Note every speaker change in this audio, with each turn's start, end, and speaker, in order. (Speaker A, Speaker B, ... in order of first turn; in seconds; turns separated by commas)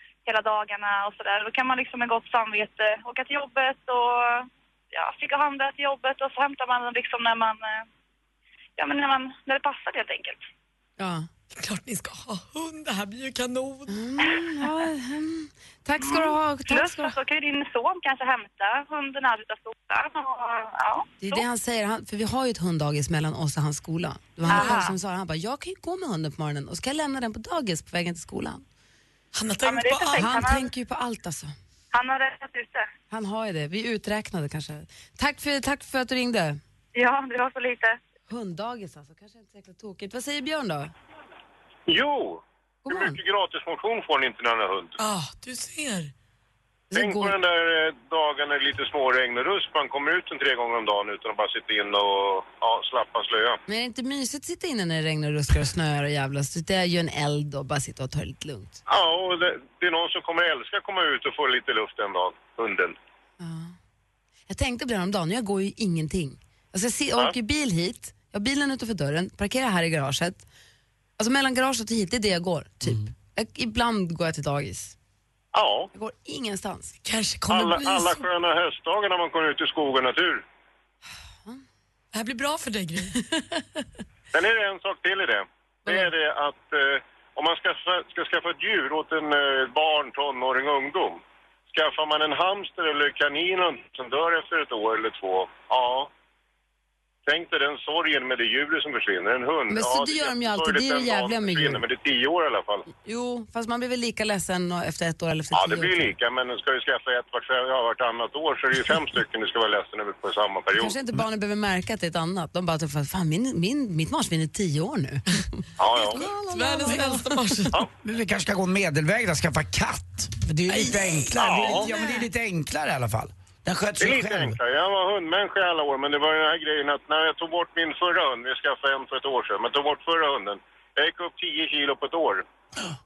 Speaker A: 0.2-7.8, Speaker A: 8.8-10.4, Speaker B: 11.0-11.3, Speaker C: 11.6-13.9, Speaker B: 13.9-17.2, Speaker A: 16.0-21.4, Speaker B: 21.2-28.6, Speaker A: 24.5-25.0, Speaker C: 29.3-30.4, Speaker A: 29.6-30.7, Speaker B: 30.1-31.6, Speaker A: 31.9-32.9, Speaker B: 33.1-36.6, Speaker A: 37.0-38.0, Speaker B: 38.3-40.9, Speaker D: 41.9-45.0, Speaker B: 42.9-43.2, Speaker C: 45.0-46.1, Speaker B: 46.9-47.4, Speaker D: 46.9-53.6, Speaker B: 53.7-58.8, Speaker D: 58.9-63.0, Speaker B: 63.4-63.8, Speaker B: 64.5-70.4, Speaker B: 71.2-75.0, Speaker E: 72.8-73.1, Speaker D: 75.5-75.9, Speaker B: 75.9-77.0, Speaker C: 77.0-78.3, Speaker D: 77.5-80.4, Speaker C: 82.1-83.2, Speaker B: 83.2-83.6, Speaker D: 84.3-96.1, Speaker D: 97.3-102.9, Speaker B: 99.7-101.8, Speaker B: 103.0-106.1, Speaker D: 105.5-110.9, Speaker B: 110.8-117.5, Speaker D: 115.8-116.2, Speaker C: 116.2-117.8, Speaker E: 118.0-124.6, Speaker C: 120.8-122.2, Speaker D: 121.4-121.8, Speaker D: 124.0-132.4